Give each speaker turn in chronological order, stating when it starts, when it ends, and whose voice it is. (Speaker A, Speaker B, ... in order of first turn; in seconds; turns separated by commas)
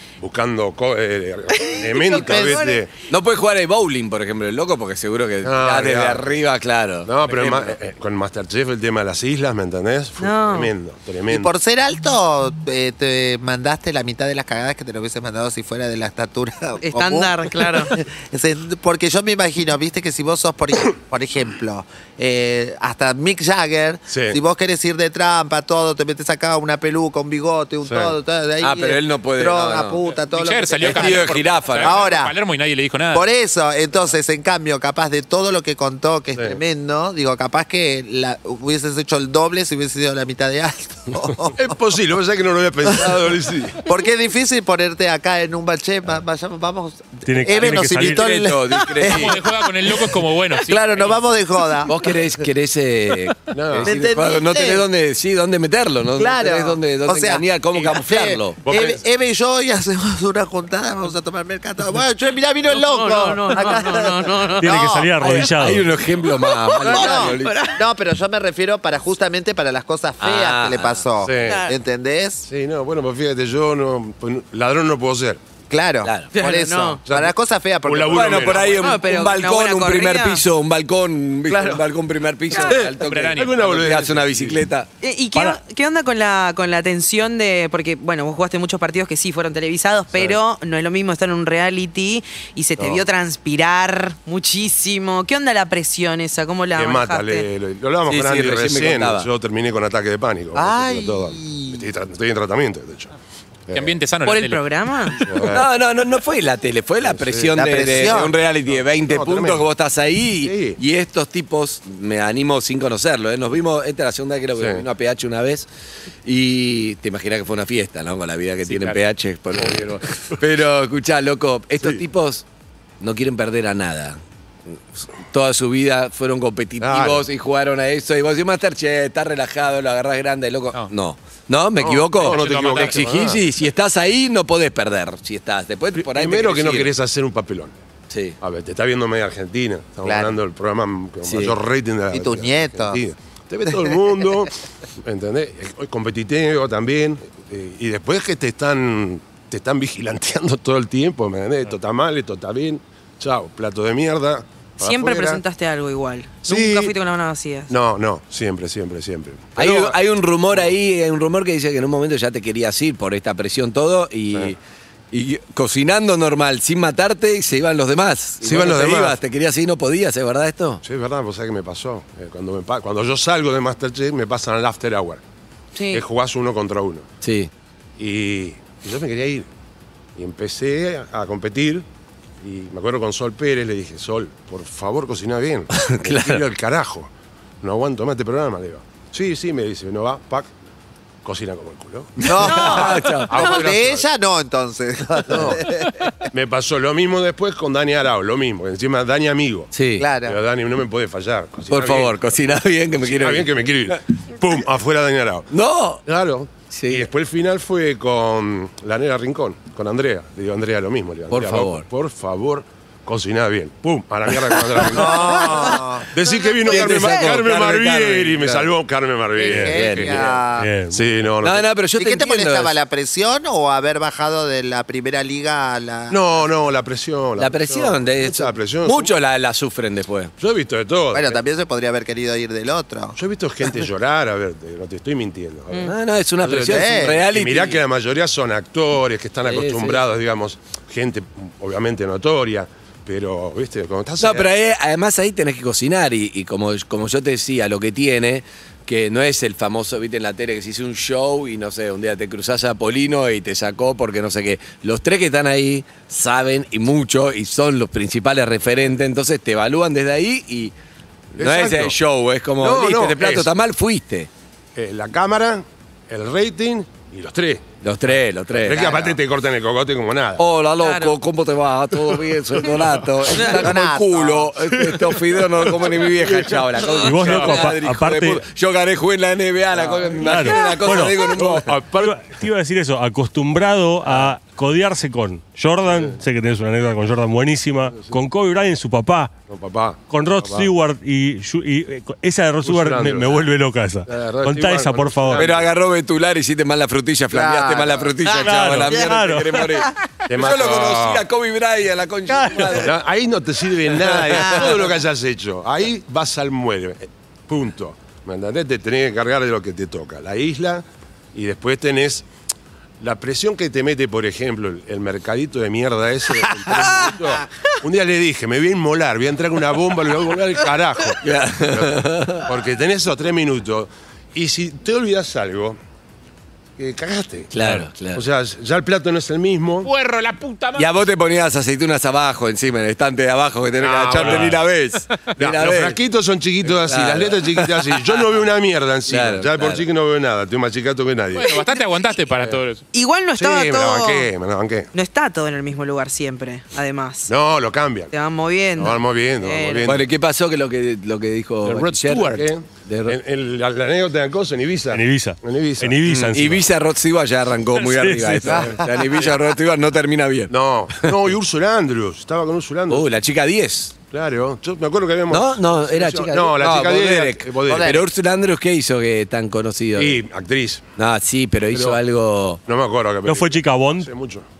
Speaker A: 0.2-2.9, Speaker B: 1.8-2.8, Speaker C: 2.0-2.7, Speaker D: 3.1-7.7, Speaker A: 5.4-6.2, Speaker A: 7.0-11.5, Speaker C: 10.2-10.7, Speaker B: 11.3-32.3, Speaker C: 16.8-17.9, Speaker A: 24.1-24.4, Speaker A: 27.9-28.1, Speaker D: 28.6-30.0, Speaker E: 30.1-33.3, Speaker D: 30.8-32.1, Speaker B: 33.1-41.6, Speaker A: 41.5-43.8, Speaker B: 42.9-43.2, Speaker B: 43.9-52.1, Speaker F: 47.3-48.3, Speaker D: 47.6-49.4, Speaker E: 49.0-51.2, Speaker D: 51.9-58.7, Speaker A: 53.5-54.0, Speaker B: 53.8-54.9, Speaker B: 56.1-65.8, Speaker A: 58.6-59.0, Speaker C: 62.7-64.7, Speaker F: 64.6-65.9, Speaker D: 65.5-67.7, Speaker C: 66.2-67.8, Speaker B: 66.8-72.5, Speaker D: 70.2-71.0, Speaker A: 71.2-71.6, Speaker C: 71.4-71.7, Speaker A: 72.5-75.4, Speaker B: 75.7-78.7, Speaker D: 76.0-76.3, Speaker C: 76.3-77.0, Speaker A: 77.0-79.0, Speaker D: 78.1-84.9, Speaker C: 78.8-80.4, Speaker B: 81.5-81.8, Speaker A: 82.5-84.6, Speaker E: 83.0-83.5, Speaker C: 85.0-97.5, Speaker A: 92.8-93.0, Speaker A: 96.8-103.1, Speaker D: 98.1-99.3, Speaker B: 100.5-101.8, Speaker A: 103.7-104.0, Speaker E: 103.7-105.2, Speaker C: 104.2-105.3, Speaker A: 105.3-105.7, Speaker D: 105.4-115.7, Speaker A: 107.0-108.2, Speaker B: 107.5-108.4, Speaker A: 108.7-109.7, Speaker A: 110.4-110.8, Speaker A: 114.6-114.8, Speaker D: 116.2-122.4, Speaker E: 118.7-119.0, Speaker A: 119.6-120.3, Speaker D: 123.0-124.2, Speaker D: 125.2-136.9, Speaker A: 126.8-127.3, Speaker A: 131.8-133.4, Speaker E: 132.2-133.1, Speaker A: 135.9-137.8, Speaker D: 138.1-138.4, Speaker A: 138.4-155.4, Speaker B: 140.1-140.3, Speaker D: 141.2-141.6, Speaker B: 142.1-143.0, Speaker C: 154.8-157.7, Speaker A: 156.4-156.9, Speaker A: 157.7-160.0, Speaker D: 159.6-164.6, Speaker D: 165.1-170.8, Speaker A: 168.4-169.2, Speaker A: 170.8-175.2, Speaker C: 175.8-176.0, Speaker A: 175.9-177.1, Speaker D: 177.2-177.5, Speaker A: 178.0-179.5, Speaker A: 180.2-181.9, Speaker A: 182.4-190.5, Speaker D: 185.7-186.4, Speaker A: 191.2-194.1, Speaker B: 192.2-196.2, Speaker D: 192.4-193.5, Speaker C: 192.5-192.9, Speaker A: 195.3-195.6, Speaker A: 196.3-199.7, Speaker D: 199.7-200.1, Speaker B: 200.0-200.4, Speaker A: 200.2-202.4, Speaker D: 201.7-203.5, Speaker A: 203.0-205.5, Speaker D: 205.5-206.0, Speaker A: 206.1-220.4, Speaker D: 206.7-207.1, Speaker D: 211.3-211.8, Speaker B: 214.9-216.1, Speaker D: 216.6-218.7, Speaker B: 219.4-220.7, Speaker F: 219.5-219.8, Speaker D: 219.7-220.3, Speaker F: 220.6-221.0, Speaker A: 220.9-221.7, Speaker D: 221.4-222.8, Speaker B: 222.0-226.2, Speaker A: 226.1-229.1, Speaker D: 227.4-230.3, Speaker A: 230.4-231.4, Speaker B: 231.1-233.2, Speaker A: 233.2-244.5, Speaker D: 235.8-237.8, Speaker B: 236.6-237.2, Speaker D: 239.5-240.0, Speaker D: 244.2-260.7, Speaker D: 261.4-264.3, Speaker A: 261.4-262.0, Speaker A: 262.6-263.5, Speaker A: 264.8-267.8, Speaker D: 267.8-269.2, Speaker A: 268.6-270.4, Speaker D: 270.4-281.7, Speaker C: 270.8-271.2, Speaker A: 272.8-273.7, Speaker B: 273.4-274.5, Speaker A: 274.7-277.7, Speaker F: 277.0-278.4, Speaker A: 279.7-280.2, Speaker F: 280.2-281.2, Speaker A: 281.2-282.3, Speaker F: 281.9-289.3, Speaker A: 285.9-286.2, Speaker A: 289.5-290.7, Speaker F: 290.1-295.6, Speaker A: 292.6-293.5, Speaker A: 294.1-295.7, Speaker D: 295.3-302.9, Speaker B: 297.3-299.4, Speaker F: 298.3-299.7, Speaker A: 300.3-301.3, Speaker F: 302.3-302.8, Speaker A: 302.7-312.3, Speaker D: 304.0-304.7, Speaker A: 313.0-325.8, Speaker D: 321.2-322.5, Speaker A: 326.8-329.9, Speaker D: 327.5-328.2, Speaker E: 329.8-330.9, Speaker D: 330.8-336.0, Speaker A: 333.8-334.5, Speaker F: 334.2-334.6, Speaker A: 335.4-341.6, Speaker D: 336.8-337.8, Speaker D: 339.1-339.8, Speaker E: 341.3-342.9, Speaker C: 342.9-344.3, Speaker A: 343.4-344.9, Speaker C: 344.9-347.3, Speaker A: 347.3-348.1, Speaker C: 348.1-350.0, Speaker A: 348.8-350.1, Speaker D: 349.9-353.2, Speaker A: 351.6-356.1, Speaker F: 354.9-356.7, Speaker D: 356.1-360.5, Speaker F: 357.8-358.7, Speaker B: 358.5-358.8, Speaker A: 360.5-363.1, Speaker D: 362.9-363.9, Speaker A: 364.1-368.0, Speaker D: 365.3-370.2, Speaker B: 367.6-368.0, Speaker A: 370.0-370.9, Speaker D: 371.0-372.6, Speaker A: 371.7-372.0, Speaker A: 372.7-374.5, Speaker F: 373.3-374.1